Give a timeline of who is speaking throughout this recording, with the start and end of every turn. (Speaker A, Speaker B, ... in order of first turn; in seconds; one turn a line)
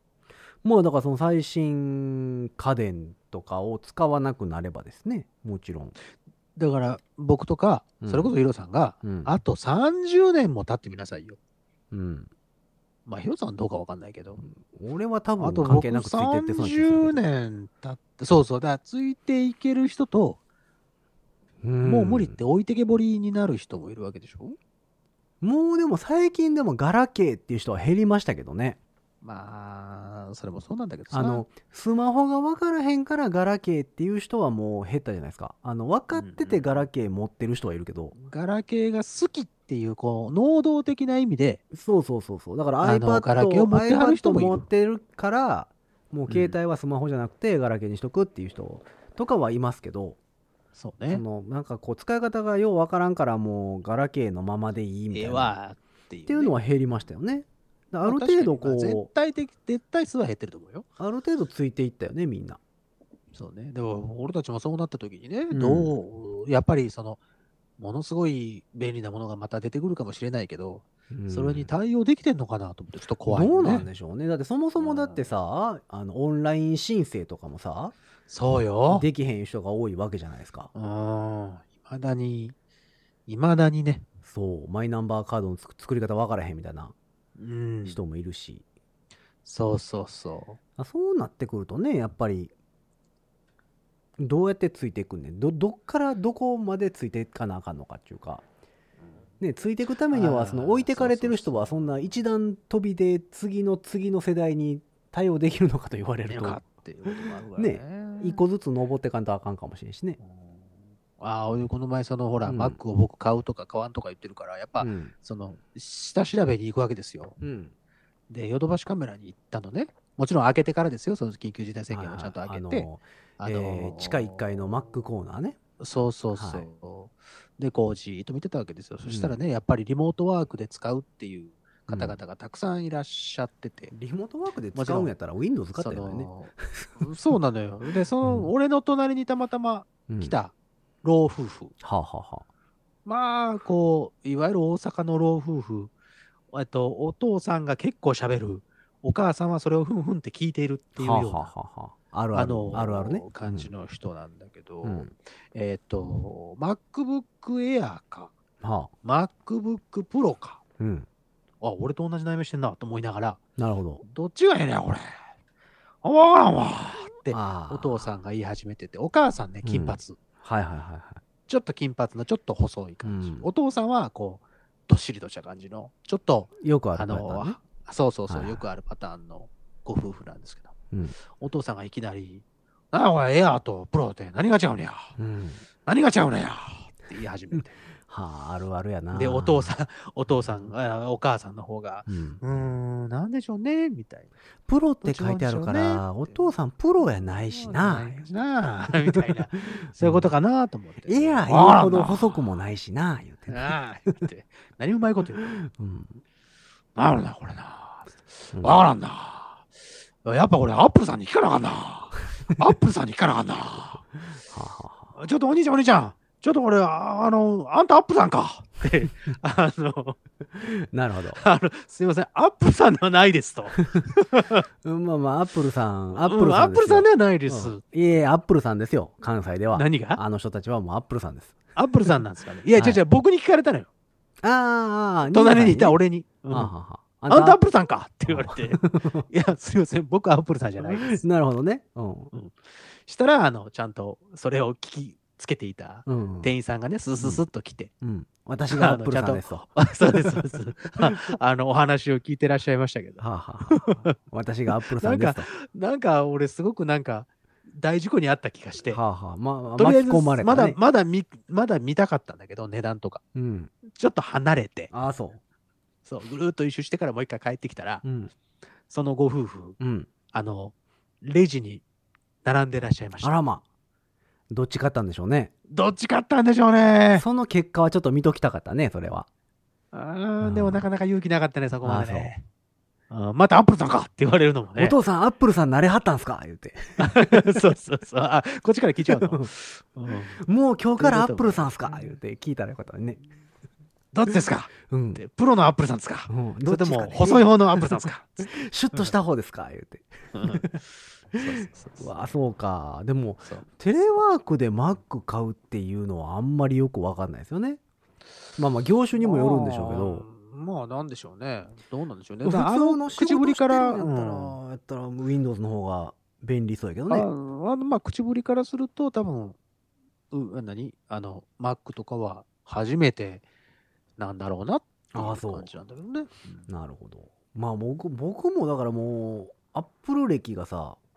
Speaker A: 0.6-5.9
Speaker B: 6.5-11.4
Speaker A: 8.0-8.3
Speaker A: 9.0-9.3
Speaker A: 11.9-12.3
Speaker B: 13.1-14.4
Speaker A: 14.4-17.2
Speaker B: 15.4-20.4
Speaker A: 21.6-22.4
Speaker B: 21.8-24.6
Speaker A: 25.4-28.8
Speaker B: 29.2-31.4
Speaker A: 31.1-38.1
Speaker B: 36.1-36.8
Speaker B: 38.1-41.6
Speaker A: 41.7-50.2
Speaker B: 42.8-44.6
Speaker B: 46.3-46.5
Speaker B: 50.7-51.2
Speaker A: 51.1-55.5
Speaker B: 55.1-56.5
Speaker A: 56.3-59.1
Speaker B: 58.0-60.9
Speaker A: 61.0-62.6
Speaker B: 63.3-67.2
Speaker A: 65.5-65.9
Speaker B: 67.8-73.9
Speaker A: 71.1-71.7
Speaker A: 73.3-77.9
Speaker B: 74.8-75.3
Speaker B: 78.3-79.0
Speaker A: 78.9-80.7
Speaker B: 80.7-82.5
Speaker B: 83.3-84.0
Speaker A: 84.2-86.9
Speaker B: 87.4-88.0
Speaker A: 87.8-88.6
Speaker B: 89.4-90.6
Speaker A: 90.8-92.5
Speaker A: 94.2-98.4
Speaker A: 99.4-110.2
Speaker B: 100.1-101.8
Speaker B: 106.3-108.4
Speaker B: 110.2-117.4
Speaker A: 112.5-112.8
Speaker A: 114.8-115.1
Speaker A: 117.4-117.7
Speaker B: 118.3-122.9
Speaker A: 121.9-125.6
Speaker B: 123.4-124.7
Speaker B: 125.8-133.9
Speaker A: 126.3-126.7
Speaker A: 129.1-129.3
Speaker A: 131.9-132.2
Speaker A: 133.9-137.1
Speaker B: 134.7-135.1
Speaker B: 135.8-141.7
Speaker A: 138.2-138.5
Speaker A: 140.1-140.3
Speaker A: 141.8-142.4
Speaker B: 143.1-145.9
Speaker B: 146.5-151.5
Speaker A: 151.0-153.7
Speaker B: 152.3-158.3
Speaker A: 154.8-155.1
Speaker A: 158.6-158.9
Speaker B: 159.0-160.6
Speaker A: 160.8-161.1
Speaker B: 161.6-163.4
Speaker A: 163.6-164.0
Speaker B: 164.0-165.1
Speaker B: 166.0-170.2
Speaker A: 167.3-168.0
Speaker A: 169.6-171.2
Speaker B: 171.5-180.7
Speaker A: 173.0-173.5
Speaker A: 176.6-177.6
Speaker A: 178.3-178.6
Speaker B: 181.3-185.1
Speaker A: 185.2-185.6
Speaker B: 185.8-187.8
Speaker A: 188.1-189.7
Speaker B: 189.1-194.3
Speaker A: 192.1-192.4
Speaker A: 194.7-198.2
Speaker B: 195.0-196.5
Speaker B: 197.1-202.4
Speaker A: 199.1-200.3
Speaker A: 201.1-203.7
Speaker B: 203.5-205.5
Speaker A: 205.4-206.2
Speaker B: 206.9-209.7
Speaker A: 208.5-208.8
Speaker B: 210.2-214.0
Speaker A: 214.5-215.1
Speaker B: 215.2-220.2
Speaker A: 220.6-221.4
Speaker B: 221.3-224.6
Speaker A: 224.8-231.6
Speaker B: 226.2-227.8
Speaker B: 229.7-230.2
Speaker B: 231.7-233.9
Speaker A: 234.4-236.0
Speaker B: 235.3-236.7
Speaker A: 236.5-237.6
Speaker B: 237.3-241.2
Speaker A: 238.3-239.3
Speaker A: 241.0-242.3
Speaker B: 242.3-247.9
Speaker A: 246.1-246.5
Speaker A: 248.0-250.4
Speaker B: 248.7-254.1
Speaker A: 251.0-251.3
Speaker A: 253.2-255.5
Speaker B: 255.0-259.0
Speaker A: 258.9-260.8
Speaker B: 259.8-263.2
Speaker A: 263.3-263.7
Speaker B: 263.9-264.9
Speaker A: 264.9-265.4
Speaker B: 266.1-268.0
Speaker A: 268.0-268.3
Speaker B: 268.9-269.8
Speaker A: 269.8-270.1
Speaker B: 270.3-271.8
Speaker B: 272.4-273.3
Speaker A: 273.2-273.6
Speaker A: 274.5-275.5
Speaker B: 275.7-277.2
Speaker A: 277.1-279.3
Speaker B: 279.9-282.4
Speaker A: 280.4-280.8
Speaker A: 281.8-282.3
Speaker B: 283.1-284.9
Speaker A: 284.8-287.6
Speaker B: 287.0-290.4
Speaker A: 289.1-289.5
Speaker A: 290.4-293.2
Speaker B: 291.0-292.1
Speaker B: 294.1-299.1
Speaker A: 294.9-295.2
Speaker A: 296.3-300.8
Speaker B: 300.3-300.7
Speaker B: 301.3-302.1
Speaker A: 302.0-307.8
Speaker A: 308.6-310.2
Speaker B: 309.2-314.6
Speaker A: 312.4-317.3
Speaker B: 317.1-319.6
Speaker B: 320.3-323.4
Speaker B: 324.2-326.6
Speaker A: 325.1-325.7
Speaker A: 326.7-331.0